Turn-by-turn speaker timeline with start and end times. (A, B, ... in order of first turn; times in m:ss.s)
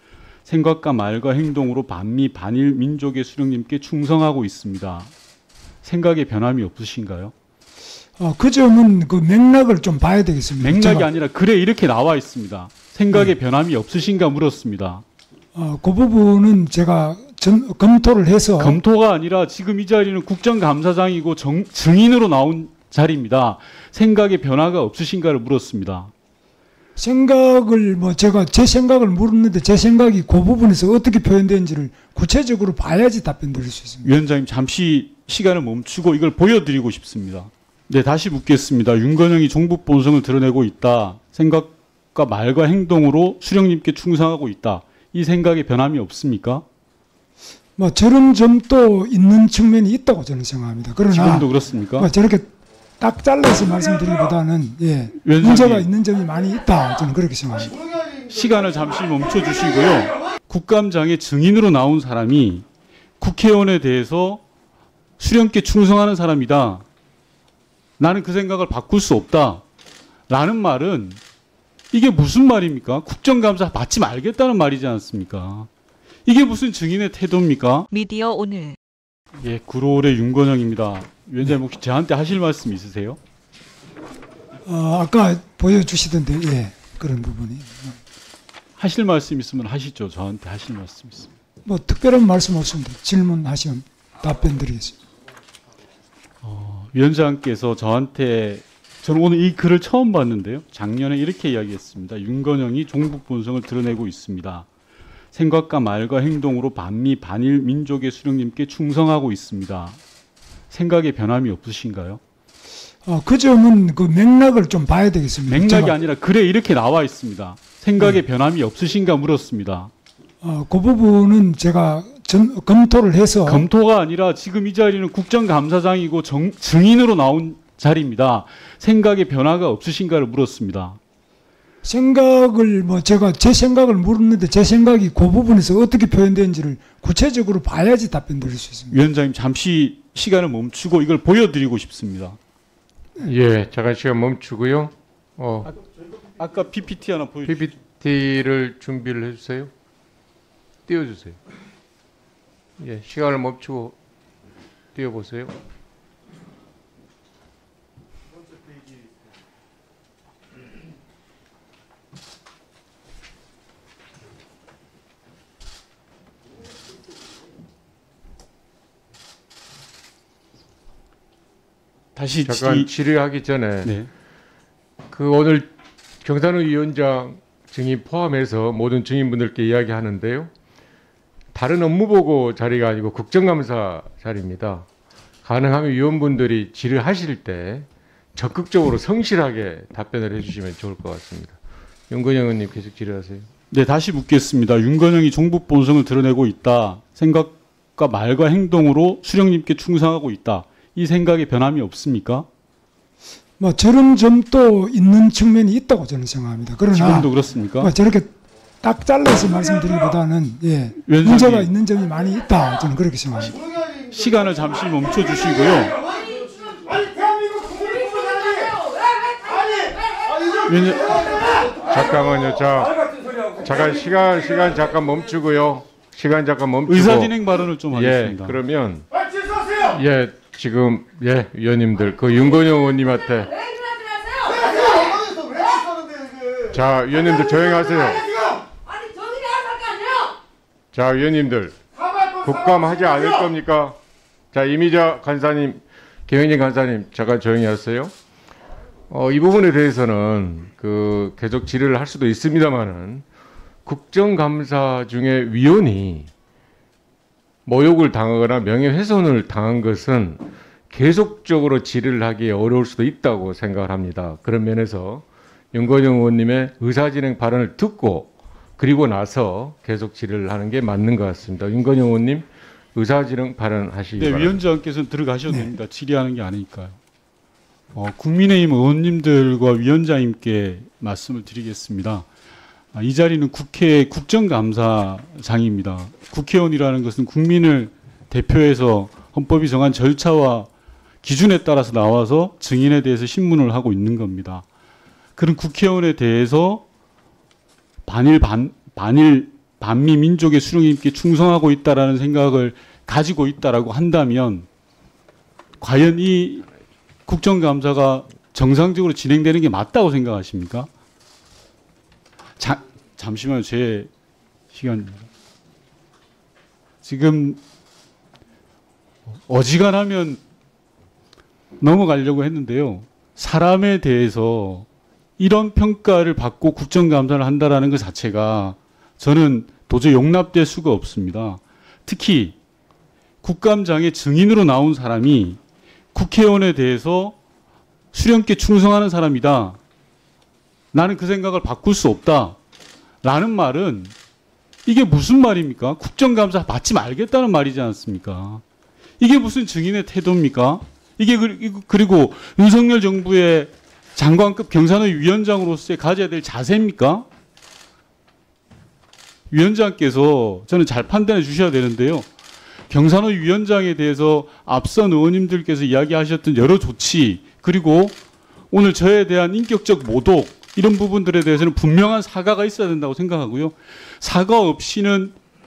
0:00.4-0:05.1 A
0:05.8-0:07.3 A
0:08.2-0:11.1 B
0:10.6-0:15.0 A
0:15.5-0:18.8 B
0:18.6-0:26.1 A
0:27.0-0:34.1 B
0:34.0-0:46.6 A
0:47.8-0:52.5 B
0:51.1-0:52.1 A
0:53.0-0:57.7 B
0:55.2-0:55.9 A
0:58.3-1:02.6 A
1:03.2-1:04.4 A
1:05.2-1:06.8 A
1:08.0-1:09.6 A
1:10.3-1:11.2 A
1:11.9-1:15.7 A
1:16.2-1:17.9 A
1:17.9-1:18.8 C
1:19.4-1:23.2 A
1:24.6-1:28.0 B
1:28.8-1:31.3 A
1:31.6-1:35.0 B
1:36.4-1:44.7 A
1:45.3-1:50.0 A
1:50.7-1:52.2 A
1:53.0-1:56.0 B
1:55.5-1:59.9 A
2:00.4-2:03.7 B
2:03.4-2:11.0 A
2:11.8-2:19.0 B
2:18.9-2:22.4 A
2:23.2-2:25.7 D
2:26.4-2:27.7 A
2:27.4-2:29.7 D
2:30.8-2:31.4 D
2:32.8-2:34.0 D
2:34.9-2:35.6 D
2:52.1-2:52.9 A
2:52.4-2:53.9 D
2:53.8-2:54.1 A
2:55.1-2:55.7 D
2:56.2-3:00.5 D
3:01.5-3:04.8 D
3:05.4-3:11.6 D
3:12.1-3:13.5 D
3:13.7-3:22.5 A
3:23.6-3:28.3 B
3:26.9-3:27.9 A
3:28.8-3:33.6 B
3:31.0-3:31.7 A
3:34.1-3:36.0 A
3:36.2-3:36.8 C
3:37.7-3:40.4 C
3:40.6-3:41.4 A
3:41.7-3:43.0 D
3:43.6-3:49.0 D
3:46.9-3:48.6 A
3:49.8-3:53.7 D
3:53.8-3:55.1 C
3:56.7-3:58.3 D
3:58.8-4:00.4 C
4:00.9-4:01.8 D
4:02.3-4:04.0 D
4:04.5-4:08.1 D
4:09.1-4:13.2 D
4:13.8-4:16.3 D
4:17.6-4:34.6 D
4:34.2-4:37.0 A
4:37.9-4:42.3 A
4:42.9-4:50.7 A
4:51.2-4:54.6 A
4:55.4-4:56.8 A
4:58.0-5:04.7 A
5:05.8-5:06.7 A
5:07.2-5:10.9 A
5:12.6-5:14.1 A
5:14.7-5:15.3 A
5:17.0-5:17.6 A
5:19.5-5:20.4 A
5:21.8-5:24.9 A
5:25.4-5:32.6 A
5:33.4-5:35.6 A
5:36.1-5:37.4 A
5:38.1-5:39.8 A
5:40.9-5:42.6 A
5:43.2-5:44.1 A
5:44.8-5:48.6 A
5:49.2-5:57.2 A
5:59.5-6:02.3 A
6:02.9-6:08.2 A
6:08.7-6:15.4 A